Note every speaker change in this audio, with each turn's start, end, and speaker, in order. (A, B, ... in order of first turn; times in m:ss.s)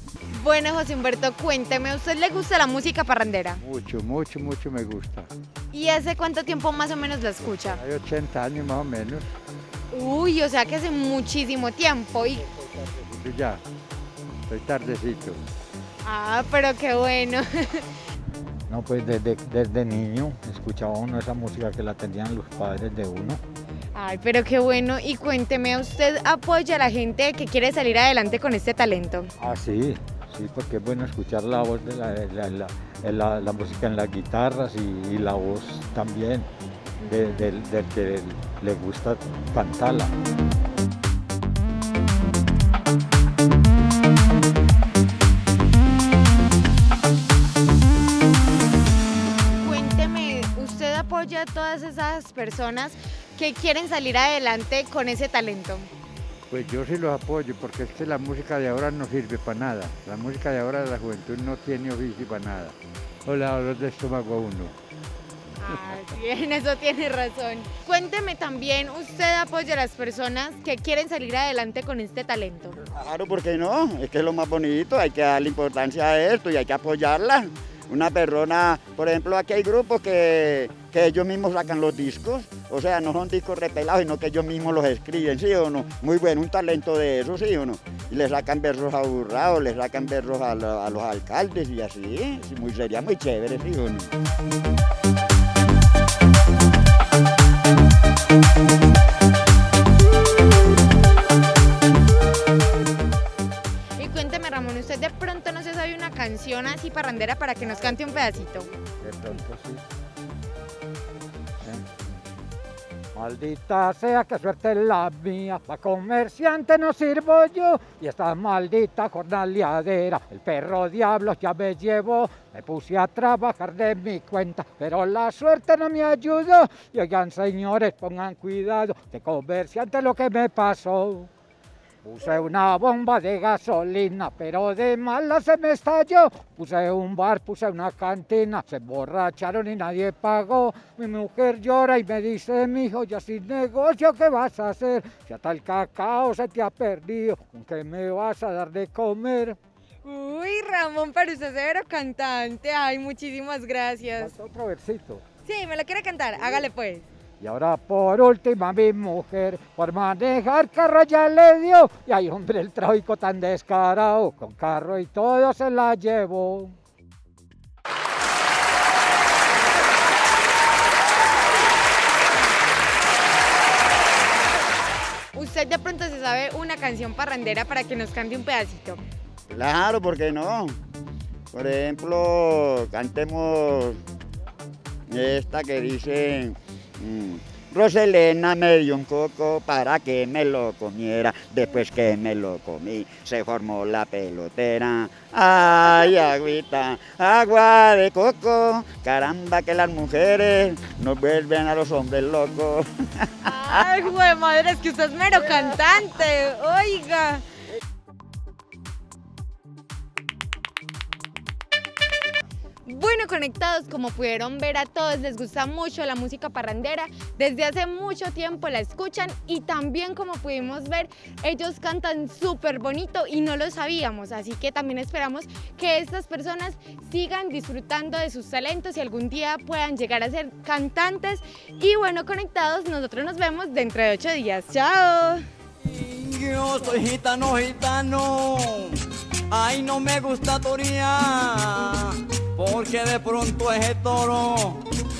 0:00.3-0:03.6 A
0:03.6-0:05.3 B
0:05.7-0:07.8 A
0:07.6-0:09.3 B
0:09.9-0:12.4 A
0:12.8-0:13.6 B
0:14.5-0:15.4 B
0:16.0-0:17.9 A
0:18.7-0:23.4 C
0:23.9-0:29.3 A
0:29.4-0:36.5 C
0:37.0-0:37.5 A
0:37.1-0:40.1 C
0:49.5-0:55.9 A
0:56.5-1:04.7 B
1:05.6-1:12.8 A
1:12.9-1:34.1 D
1:44.0-1:48.7 A
1:49.0-1:49.8 C
1:51.6-1:52.0 C
1:53.1-2:11.3 C
2:12.0-2:29.6 C
2:30.0-2:34.3 A
2:34.2-2:35.2 C
2:35.4-2:37.1 A
2:37.4-2:46.8 C
2:55.3-2:59.0 A
2:59.5-3:00.8 D
3:01.5-3:04.0 D
3:05.1-3:23.8 D
3:23.4-3:27.4 A
3:32.8-3:55.4 A
3:55.8-3:59.0 E
3:59.5-4:04.8 E